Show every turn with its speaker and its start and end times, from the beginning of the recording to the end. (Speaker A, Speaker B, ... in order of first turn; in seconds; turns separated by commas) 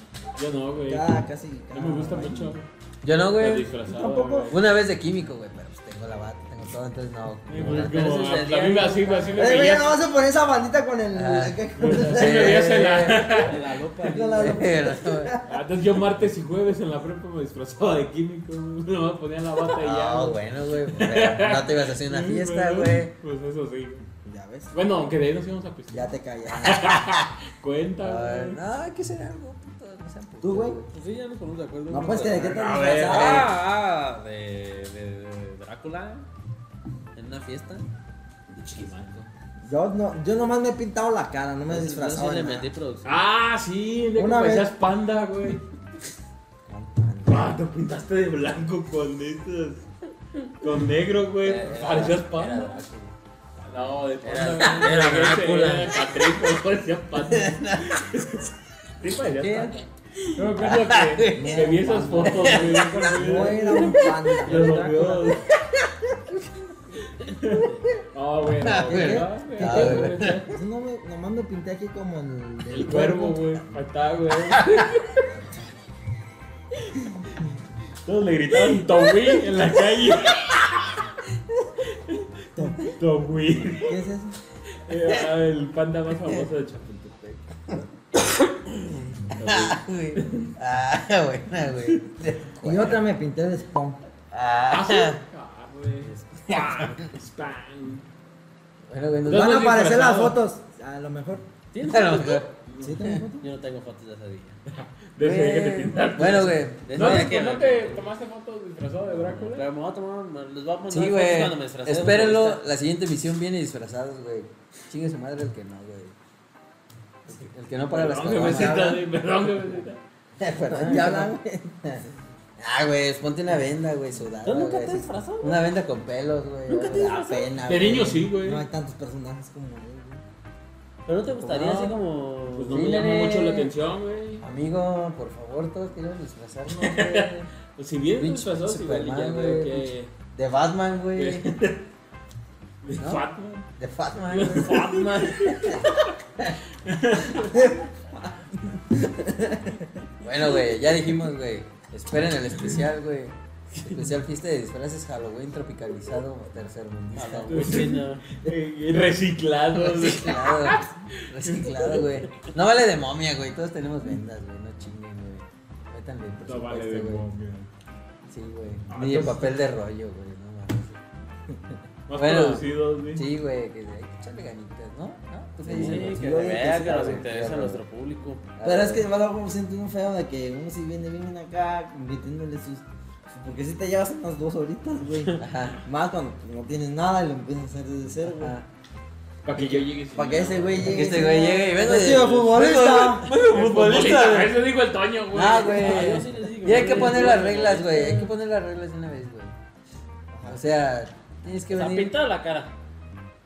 Speaker A: 0.4-1.1, Speaker B: 0.8-2.6, Speaker A: 1.7-2.6, Speaker C: 3.0-3.7, Speaker A: 3.3-4.6, Speaker B: 3.8-4.5, Speaker C: 4.5-8.1, Speaker A: 7.5-10.0, Speaker D: 7.6-9.7, Speaker B: 9.3-12.9, Speaker C: 11.1-13.4, Speaker A: 11.8-13.5, Speaker D: 13.0-14.7, Speaker B: 13.7-15.6, Speaker C: 14.1-15.3, Speaker A: 15.5-24.0, Speaker C: 19.8-23.1, Speaker B: 24.2-24.7, Speaker A: 24.7-28.6, Speaker B: 25.9-26.9, Speaker C: 28.0-30.9, Speaker B: 30.4-30.8, Speaker D: 30.9-36.3, Speaker B: 31.9-33.5, Speaker A: 32.4-33.5, Speaker D: 37.1-37.9, Speaker A: 38.6-39.3, Speaker B: 39.6-42.7, Speaker D: 41.7-43.2, Speaker A: 43.0-45.6, Speaker B: 44.1-44.7, Speaker B: 46.7-47.5, Speaker A: 47.2-49.8, Speaker A: 50.4-52.8, Speaker D: 51.4-53.1, Speaker C: 51.6-52.1, Speaker A: 53.6-59.8, Speaker D: 54.2-55.9, Speaker C: 54.6-55.9, Speaker C: 57.2-58.2, Speaker D: 59.4-59.8, Speaker A: 60.3-65.5, Speaker C: 60.5-64.6, Speaker B: 61.3-65.4, Speaker A: 67.2-70.5, Speaker C: 68.6-70.5, Speaker B: 68.8-73.4, Speaker A: 72.7-75.2, Speaker A: 78.0-81.1, Speaker A: 81.8-84.0, Speaker B: 82.5-82.9, Speaker B: 83.8-84.4, Speaker A: 84.7-87.4, Speaker A: 89.2-90.5, Speaker C: 89.4-93.0, Speaker B: 92.6-94.0, Speaker C: 94.3-95.2, Speaker A: 94.7-98.0, Speaker D: 96.0-97.0, Speaker C: 96.5-96.9, Speaker C: 98.9-99.6, Speaker B: 99.3-101.4, Speaker A: 99.3-100.4, Speaker D: 101.7-102.4, Speaker C: 101.9-102.5, Speaker A: 102.5-103.1, Speaker B: 102.8-103.5, Speaker D: 103.4-104.6, Speaker A: 104.7-109.7, Speaker C: 105.2-107.4, Speaker D: 106.8-108.1, Speaker D: 109.2-112.6, Speaker C: 110.9-116.2, Speaker C: 117.2-119.0, Speaker A: 117.9-120.0, Speaker B: 118.3-119.0, Speaker C: 120.4-121.3, Speaker B: 120.6-121.8, Speaker C: 122.6-127.2, Speaker D: 124.4-125.6, Speaker D: 126.7-127.5, Speaker B: 126.7-130.2, Speaker A: 127.6-128.6, Speaker D: 131.1-133.1, Speaker C: 131.3-132.0, Speaker A: 132.5-134.4, Speaker C: 132.7-133.7, Speaker C: 134.4-137.5, Speaker A: 136.7-140.1, Speaker C: 138.2-141.5, Speaker A: 141.1-141.8, Speaker A: 142.8-143.7, Speaker C: 143.0-143.2, Speaker C: 143.8-145.9, Speaker A: 144.3-146.1, Speaker A: 146.8-147.6, Speaker B: 147.3-150.0, Speaker C: 150.2-157.9, Speaker D: 153.8-154.1, Speaker D: 157.1-158.3, Speaker A: 157.3-162.3, Speaker C: 159.7-167.2, Speaker A: 166.4-167.7, Speaker C: 168.3-171.0, Speaker A: 168.9-169.6, Speaker A: 172.1-173.3, Speaker C: 172.1-177.8, Speaker B: 175.6-177.2, Speaker D: 175.7-178.5, Speaker C: 178.6-179.1, Speaker B: 178.6-188.6, Speaker C: 185.4-185.8, Speaker C: 188.3-188.7, Speaker A: 189.4-191.1, Speaker B: 189.5-193.3, Speaker C: 190.8-194.6, Speaker A: 193.3-197.4, Speaker C: 195.3-199.5, Speaker D: 195.7-198.3, Speaker B: 200.3-200.6, Speaker C: 200.5-202.2, Speaker D: 201.7-202.7